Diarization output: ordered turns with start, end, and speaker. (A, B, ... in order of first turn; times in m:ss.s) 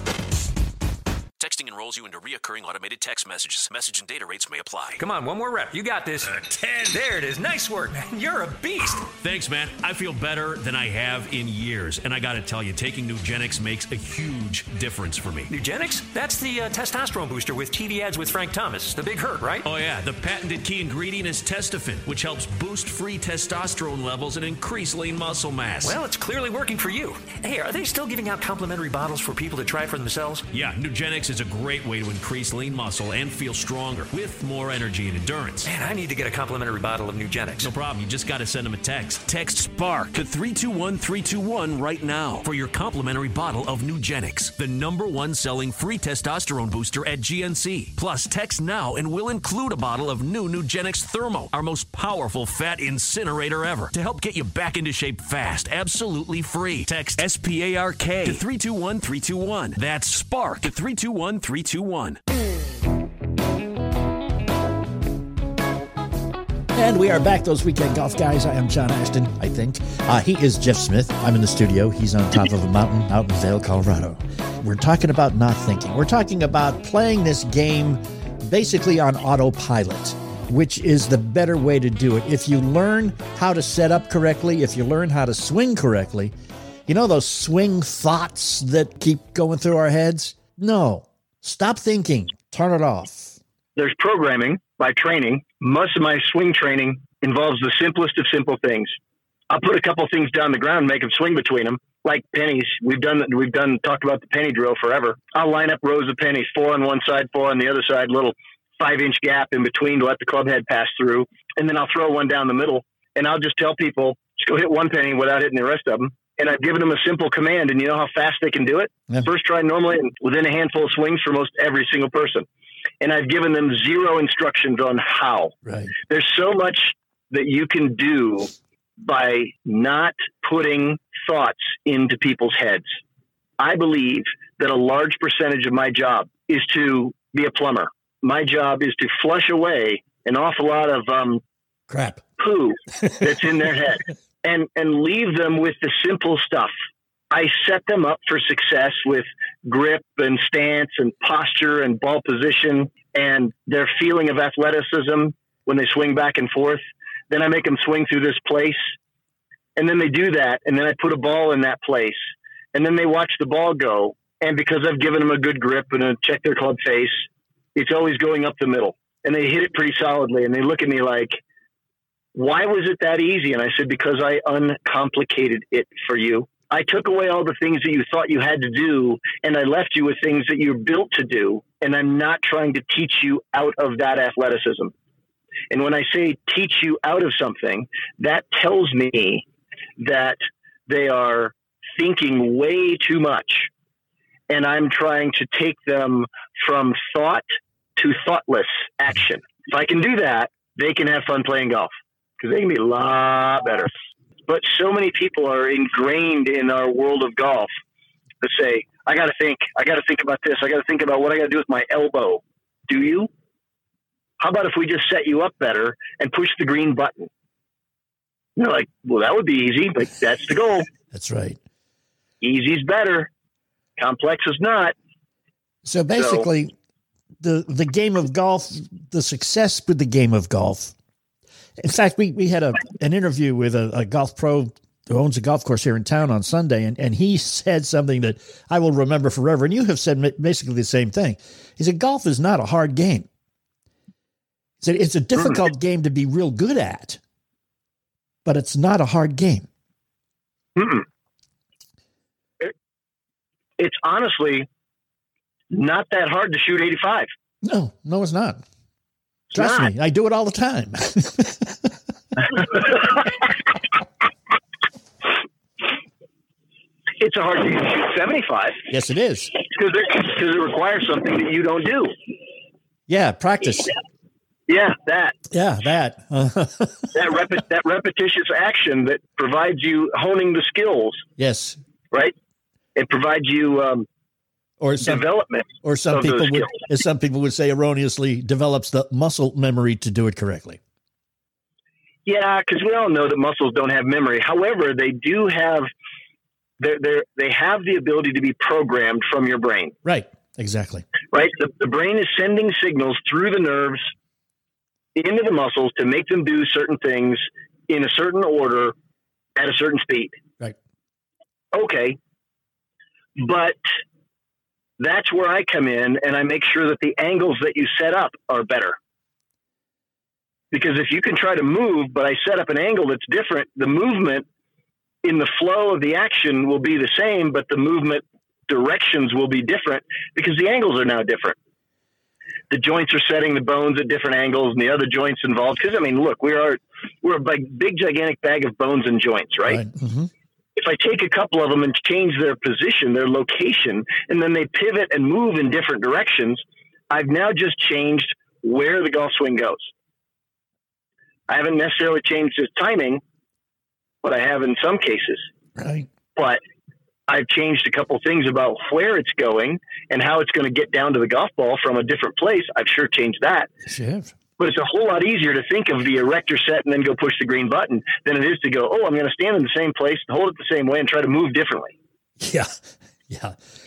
0:01.4-0:05.0 A
0:05.0-0:09.1 B
0:09.1-0:15.5 C
0:15.5-0:19.7 B
0:19.6-0:26.0 C
0:25.8-0:30.5 B
0:30.5-0:35.7 C
0:35.6-0:37.7 B
0:37.6-1:02.2 C
1:06.7-1:26.3 D
1:26.9-1:33.4 D
1:33.8-1:38.9 E
1:39.5-2:02.5 E
2:03.0-2:05.5 E
2:05.6-2:05.9 D
2:06.1-2:12.9 E
2:13.6-2:21.4 E
2:21.9-2:22.2 D
2:22.4-2:26.7 E
2:23.0-2:23.3 D
2:27.3-2:38.9 E
2:39.8-2:42.2 E
2:42.7-2:51.4 E
2:52.4-3:04.9 E
3:05.7-3:09.4 E
3:10.0-3:13.7 E
3:14.5-3:17.5 E
3:18.0-3:23.9 E
3:24.5-3:27.7 E
3:28.4-3:33.3 E
3:34.4-3:37.3 E
3:38.6-3:40.9 E
3:41.1-3:41.6 D
3:42.4-3:43.3 E
3:44.0-3:44.9 E
3:45.8-3:46.7 D
3:46.2-3:46.5 E
3:47.4-3:50.9 D
3:51.8-4:03.3 D
4:04.8-4:07.2 D
4:08.4-4:09.7 D
4:10.8-4:11.1 E
4:13.8-4:14.7 E
4:15.7-4:17.3 E
4:17.6-4:18.6 D
4:19.5-4:19.9 E
4:19.5-4:21.9 D
4:27.2-4:28.8 E
4:28.9-4:29.6 D
4:29.7-4:32.1 E
4:33.1-4:33.9 D
4:34.7-4:35.4 E
4:35.5-4:37.1 D
4:37.1-4:41.3 E
4:41.4-4:41.8 D
4:43.0-4:44.1 E
4:44.8-4:45.2 D
4:45.0-4:46.8 E
4:45.8-4:50.8 D
4:52.3-4:55.9 E
4:56.8-5:00.0 E
5:00.0-5:01.1 D
5:01.3-5:04.1 E
5:05.2-5:09.0 E
5:09.6-5:10.4 E
5:11.7-5:12.2 E
5:13.4-5:13.8 E
5:15.0-5:19.0 E
5:20.7-5:24.5 E
5:25.2-5:31.6 E
5:32.7-5:39.8 E
5:39.7-5:40.3 D
5:40.8-5:49.9 E
5:51.5-5:53.2 E
5:54.2-5:55.5 E
5:55.8-5:56.1 D
5:57.3-6:03.7 E
6:03.9-6:04.3 D
6:04.6-6:12.0 E
6:12.4-6:13.6 D